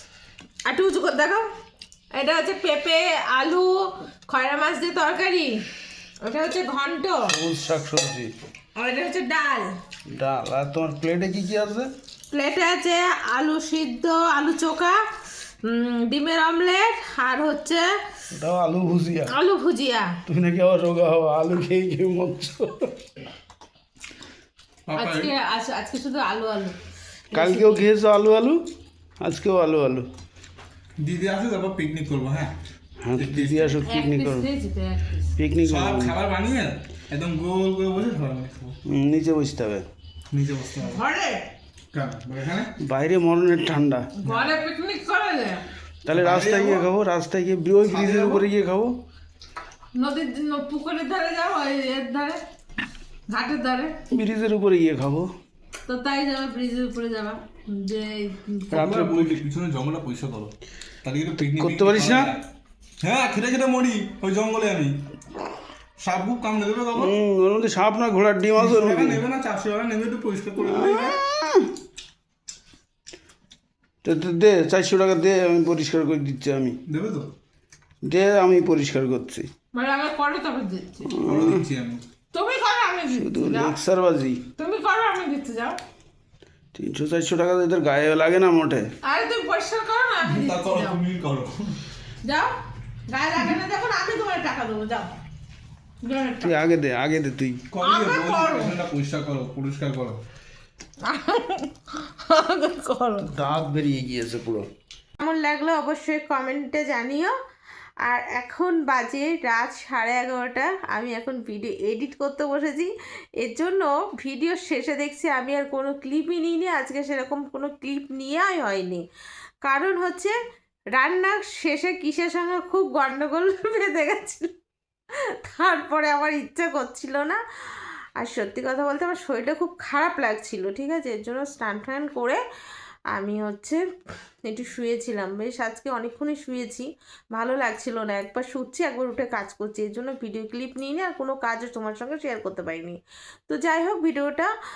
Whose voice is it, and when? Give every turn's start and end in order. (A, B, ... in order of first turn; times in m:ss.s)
0:00.6-0:01.4 A
0:02.1-0:05.6 A
0:06.2-0:07.3 A
0:07.3-0:08.3 B
0:08.8-0:09.7 A
0:10.1-0:11.9 B
0:12.3-0:15.0 A
0:15.6-0:17.9 A
0:18.3-0:19.3 B
0:19.3-0:20.2 A
0:20.3-0:22.9 B
0:24.8-0:25.3 C
0:24.9-0:26.8 A
0:27.3-0:27.8 A
0:27.3-0:28.6 B
0:29.2-0:30.0 B
0:31.0-0:32.5 C
0:33.0-0:34.5 B
0:33.1-0:33.8 C
0:33.8-0:35.3 A
0:35.4-0:36.2 B
0:35.6-0:38.7 C
0:38.8-0:39.8 B
0:40.3-0:41.0 C
0:40.8-0:41.5 A
0:41.9-0:42.7 C
0:42.8-0:44.1 B
0:44.2-0:45.6 A
0:44.2-0:44.6 C
0:46.0-0:48.9 B
0:46.1-0:46.8 C
0:47.9-0:48.5 C
0:50.0-0:52.4 A
0:53.3-0:53.9 A
0:54.1-0:55.3 B
0:55.9-0:58.8 A
0:58.7-0:59.4 B
0:58.7-1:00.5 C
1:01.0-1:02.4 C
1:01.4-1:02.3 B
1:03.0-1:05.0 C
1:06.0-1:07.1 C
1:06.9-1:09.2 B
1:08.5-1:11.2 C
1:10.6-1:11.7 B
1:14.0-1:16.8 B
1:16.9-1:17.3 C
1:18.0-1:19.5 B
1:19.7-1:21.2 A
1:21.0-1:21.6 B
1:21.2-1:22.0 C
1:22.3-1:23.8 A
1:23.1-1:24.4 B
1:24.6-1:25.8 A
1:26.7-1:28.9 B
1:29.0-1:31.0 A
1:30.2-1:31.8 C
1:32.2-1:32.5 A
1:33.1-1:35.1 A
1:36.0-1:36.6 A
1:36.4-1:37.6 B
1:37.7-1:40.2 C
1:37.8-1:38.8 A
1:41.0-1:43.3 A
1:43.2-1:44.7 B
1:45.2-1:47.3 A
1:48.0-1:59.0 A
1:59.6-2:00.3 A
2:01.0-2:04.5 A
2:05.4-2:12.4 A
2:13.1-2:13.8 A
2:14.5-2:23.0 A
2:23.5-2:24.5 A